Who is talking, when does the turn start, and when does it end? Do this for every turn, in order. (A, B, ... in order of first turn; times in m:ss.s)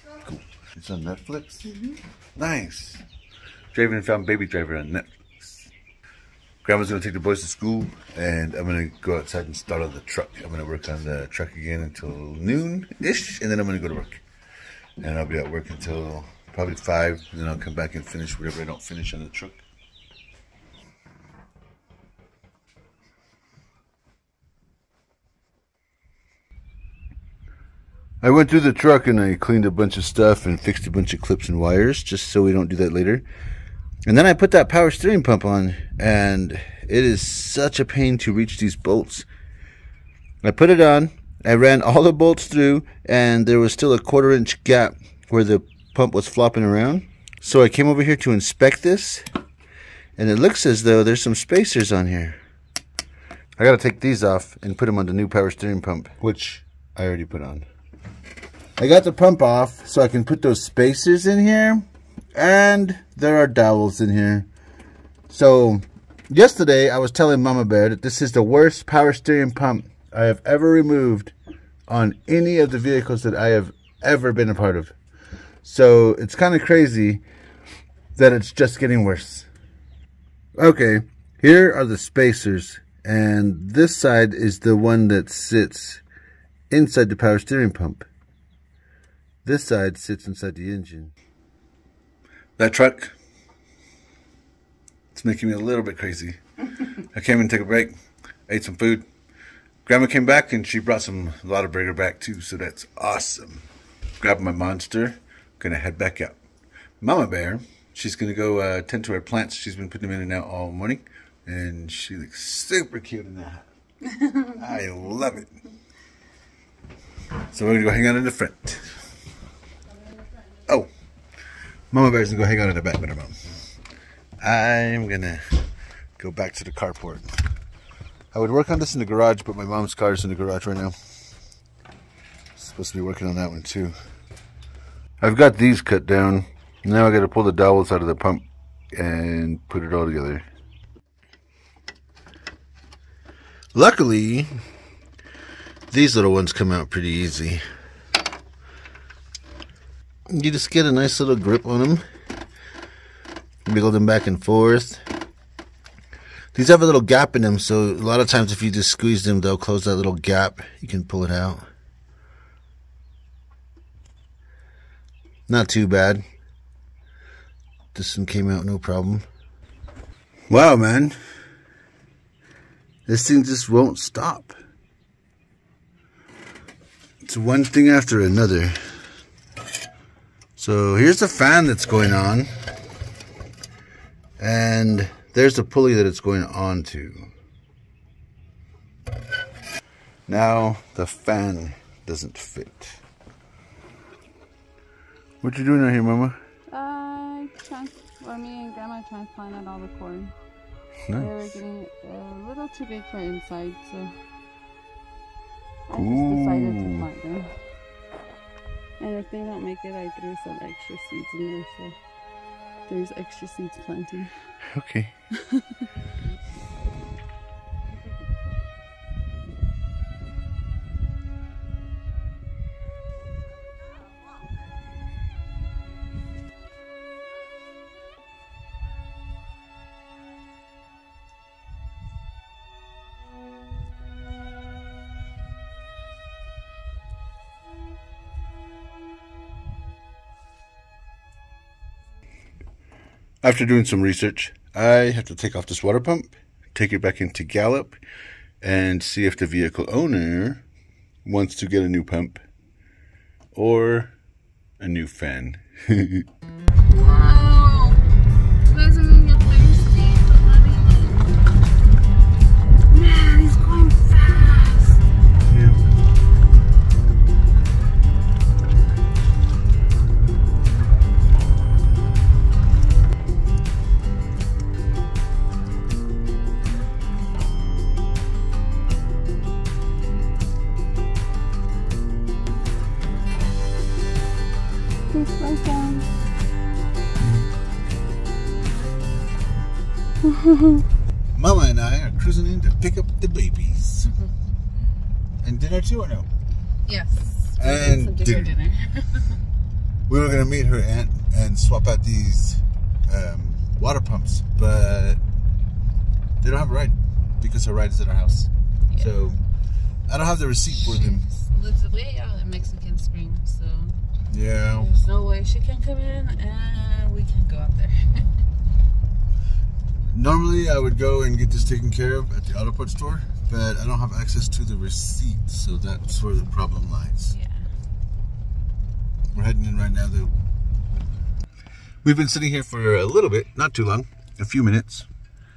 0:00.2-0:01.7 A
0:02.4-0:03.0 A
0:03.7-0:05.7 A
0:06.6-0:14.2 A
0:15.0-0:19.6 A
0:28.2-0:33.2 A
0:34.0-0:39.3 A
0:40.4-0:49.2 A
0:50.2-0:52.4 A
0:53.6-0:57.6 A
0:58.8-1:04.5 A
1:05.3-1:11.3 A
1:11.9-1:14.9 A
1:15.6-1:17.2 A
1:18.2-1:19.5 A
1:20.6-1:26.0 A
1:26.7-1:28.1 A
1:29.4-1:31.1 A
1:32.6-1:33.1 A
1:35.1-1:36.4 A
1:37.1-1:37.9 A
1:38.5-1:39.0 A
1:39.8-1:43.6 A
1:44.2-1:46.4 A
1:47.0-1:53.7 A
1:54.4-1:55.6 A
1:57.5-1:58.9 A
2:01.9-2:03.4 A
2:04.4-2:05.4 A
2:06.2-2:07.4 A
2:08.3-2:10.9 A
2:12.6-2:13.9 A
2:15.2-2:20.4 A
2:23.7-2:24.5 A
2:25.9-2:27.6 A
2:30.3-2:32.0 A
2:33.6-2:35.0 A
2:36.5-2:41.6 A
2:45.5-2:46.2 A
2:47.9-2:49.2 A
2:50.5-2:51.2 A
2:53.1-2:54.6 A
2:57.2-2:58.8 A
3:00.6-3:02.5 A
3:04.4-3:07.3 A
3:10.3-3:13.0 A
3:15.4-3:16.4 A
3:16.7-3:20.3 B
3:21.1-3:21.6 A
3:21.1-3:24.2 B
3:25.9-3:27.5 B
3:25.9-3:27.1 A
3:29.0-3:32.0 B
3:32.9-3:34.5 B
3:34.6-3:35.1 A
3:35.4-3:35.8 B
4:03.4-4:08.0 A
4:08.6-4:10.6 A
4:11.2-4:12.4 A
4:13.5-4:14.1 A
4:14.8-4:16.2 A
4:16.9-4:18.0 B
4:18.6-4:21.3 B
4:22.9-4:25.0 B
4:25.5-4:25.8 A
4:45.1-4:46.1 B
4:50.3-4:50.8 B
4:51.3-4:54.1 A
4:55.4-4:56.3 A
4:56.8-4:59.4 B
4:57.6-4:58.5 A
5:00.1-5:05.2 A
5:06.4-5:09.4 A
5:10.1-5:11.2 A
5:10.7-5:14.0 B
5:14.3-5:14.9 A
5:14.7-5:18.4 B
5:20.1-5:27.3 A
5:27.3-5:27.7 B
5:29.3-5:30.3 A
5:32.0-5:35.1 A